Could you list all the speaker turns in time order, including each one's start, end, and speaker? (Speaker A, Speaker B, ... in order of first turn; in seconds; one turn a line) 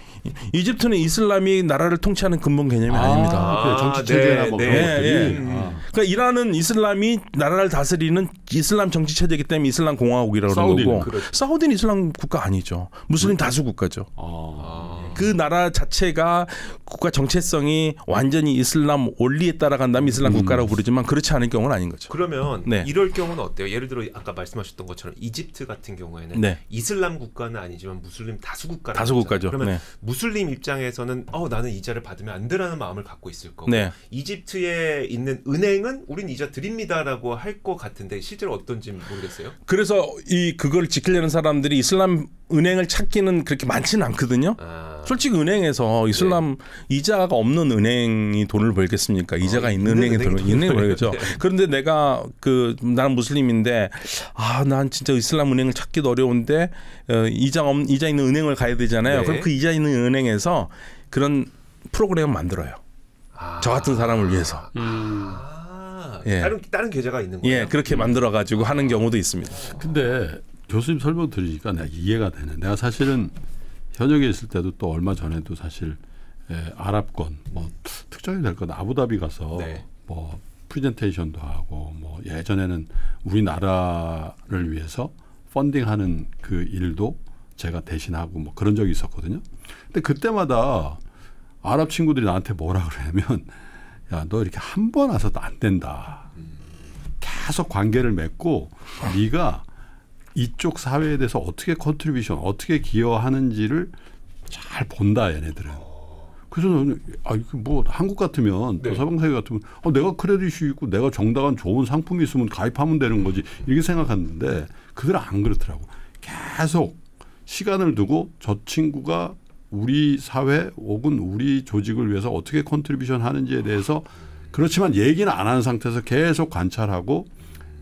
Speaker A: 0.2-3.6
Speaker B: 2.9-5.8
Speaker C: 3.2-5.8
Speaker A: 4.7-14.1
Speaker B: 10.5-11.2
Speaker C: 10.9-11.3
Speaker B: 14.2-15.2
Speaker C: 14.6-15.2
Speaker A: 15.1-22.9
Speaker B: 20.2-20.7
Speaker C: 22.1-39.5
Speaker A: 26.3-26.6
Speaker A: 28.9-29.8
Speaker A: 33.7-33.9
Speaker A: 39.6-62.8
Speaker C: 44.6-45.2
Speaker C: 46.1-46.4
Speaker C: 49.4-51.4
Speaker C: 59.0-59.5
Speaker C: 63.3-69.8
Speaker A: 63.6-64.7
Speaker B: 64.7-65.4
Speaker A: 66.2-66.5
Speaker A: 67.4-69.8
Speaker B: 69.7-73.3
Speaker B: 73.9-91.0
Speaker C: 79.5-79.8
Speaker B: 91.6-96.3
Speaker B: 97.2-99.7
Speaker B: 100.3-103.9
Speaker B: 104.5-105.9
Speaker B: 106.5-127.3